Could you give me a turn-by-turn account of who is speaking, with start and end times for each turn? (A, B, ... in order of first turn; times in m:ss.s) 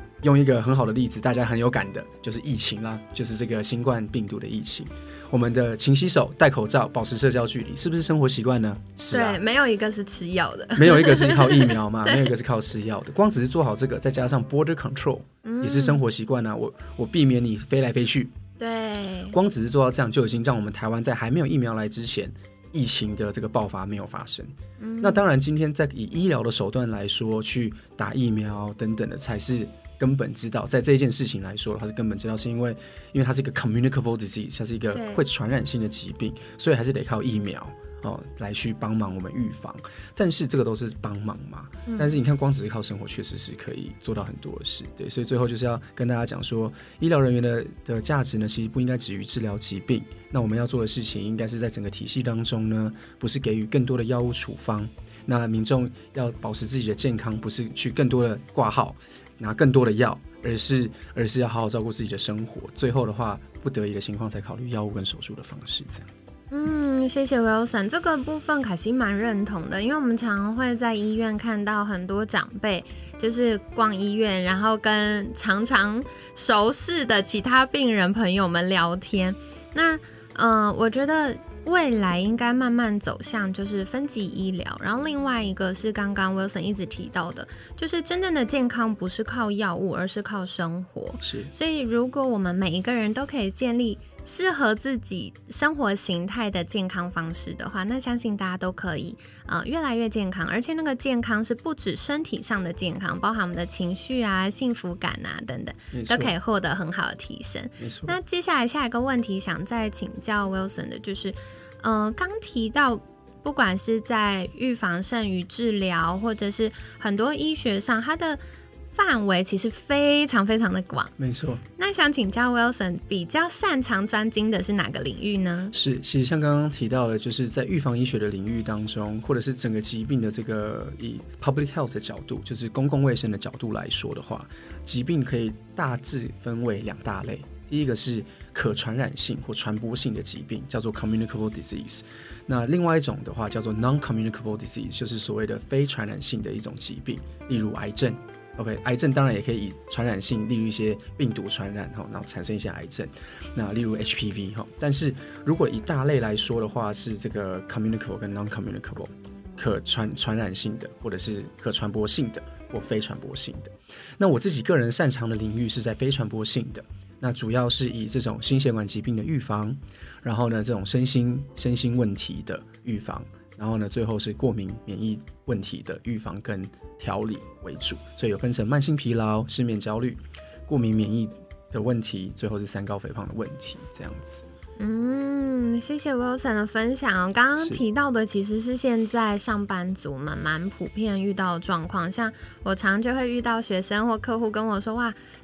0:00.2-0:09.4 A
0:09.1-0:12.3 B
0:10.8-0:18.3 A
0:15.4-0:16.0 B
0:18.6-0:19.4 B
0:19.3-1:06.1 A
0:24.8-0:25.2 B
0:34.9-0:35.2 B
0:41.9-0:42.2 B
1:06.5-2:01.1 B
1:31.2-1:31.5 A
1:45.9-1:46.3 A
1:47.8-1:48.2 A
2:01.2-2:01.6 A
2:01.8-2:05.8 B
2:05.7-3:04.4 A
3:04.8-3:15.2 B